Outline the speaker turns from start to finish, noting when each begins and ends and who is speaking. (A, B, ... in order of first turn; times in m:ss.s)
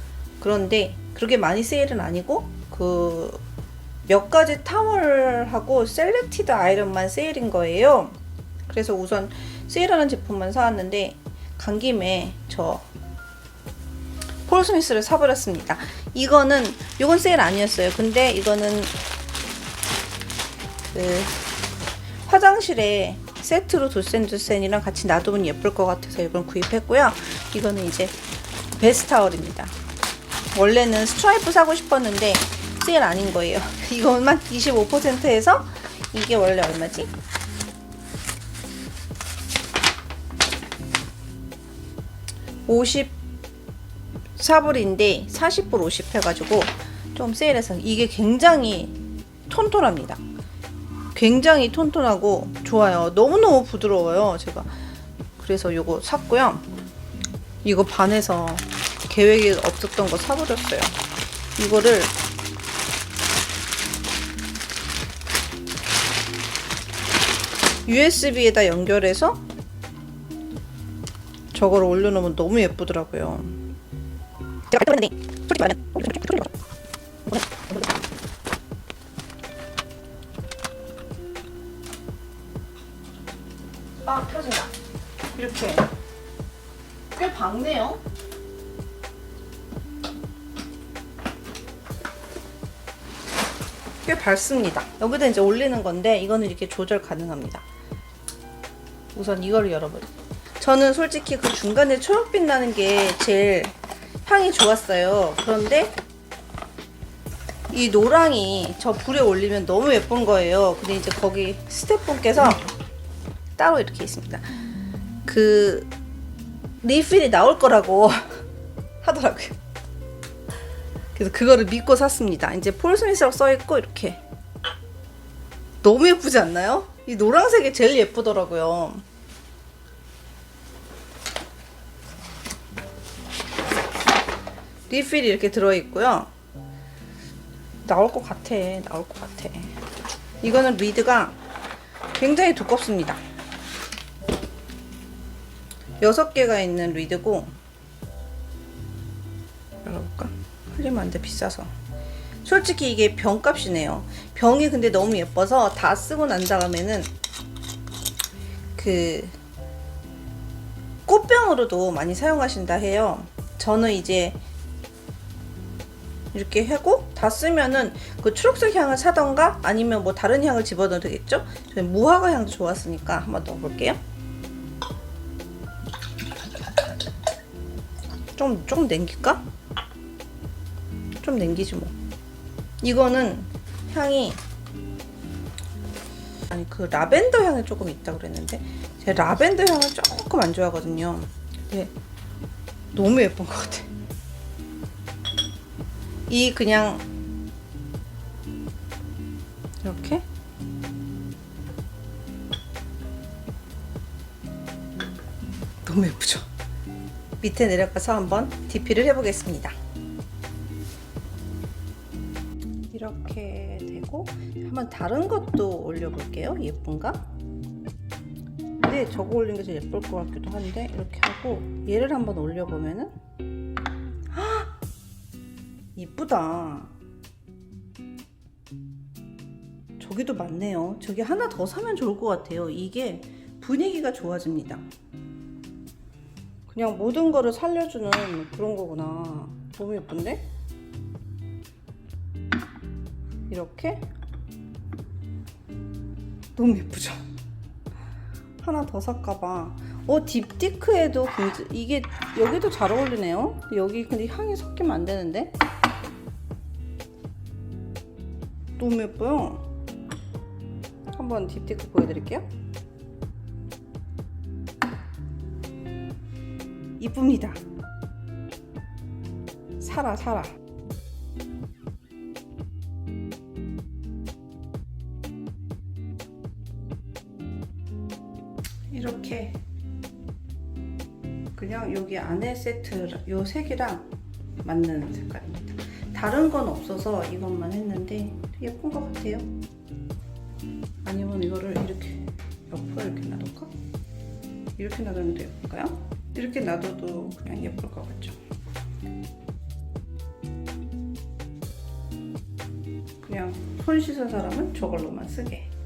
0:00.4-0:03.4 A
0:04.1-0:12.9 A
0:14.5-0:18.9 A
0:20.9-0:21.4 A
0:22.2-0:28.2 A
0:28.8-0:29.7 A
0:30.5-0:37.1 A
0:42.7-0:43.2 A
0:44.4-0:49.0 A
0:49.5-0:50.2 A
0:51.1-0:54.8 A
0:55.4-0:56.7 A
0:57.6-1:01.0 A
1:01.6-1:02.1 A
1:07.9-1:09.4 A
1:11.5-1:13.6 A
1:14.7-1:16.5 A
1:24.0-1:24.7 A
1:25.3-1:25.9 A
1:27.1-1:28.0 A
1:34.0-1:37.6 A
1:39.1-1:46.0 A
1:47.7-1:52.7 A
1:53.6-1:54.4 A
1:55.3-1:55.9 A
1:56.8-1:58.4 A
1:59.0-1:59.6 A
2:01.2-2:04.2 A
2:05.8-2:09.0 A
2:14.9-2:16.3 A
2:17.8-2:19.8 A
2:20.4-2:21.4 A
2:22.1-2:23.2 A
2:26.0-2:27.6 A
2:29.8-2:31.7 A
2:32.4-2:37.1 A
2:38.8-2:39.4 A
2:41.1-2:44.4 A
2:46.3-2:54.0 A
2:58.4-2:59.4 A
3:01.2-3:01.9 A
3:02.8-3:04.4 A
3:06.5-3:11.9 A
3:12.9-3:13.9 A
3:16.3-3:17.1 A
3:19.8-3:20.2 A
3:25.8-3:26.5 A
3:27.4-3:29.8 A
3:32.9-3:37.3 A
3:38.8-3:43.2 A
3:44.3-3:44.7 A
3:45.9-3:46.9 A
3:50.0-3:54.9 A
3:56.7-4:00.5 A
4:03.5-4:04.1 A
4:06.6-4:07.3 A
4:08.6-4:15.6 A
4:18.8-4:19.7 A
4:21.1-4:22.5 A
4:27.0-4:27.6 A
4:29.8-4:30.6 A
4:38.9-4:39.6 A
4:41.6-4:44.1 A
4:44.6-4:49.5 A
4:51.0-4:53.8 A
4:54.8-4:58.4 A
5:03.2-5:05.7 A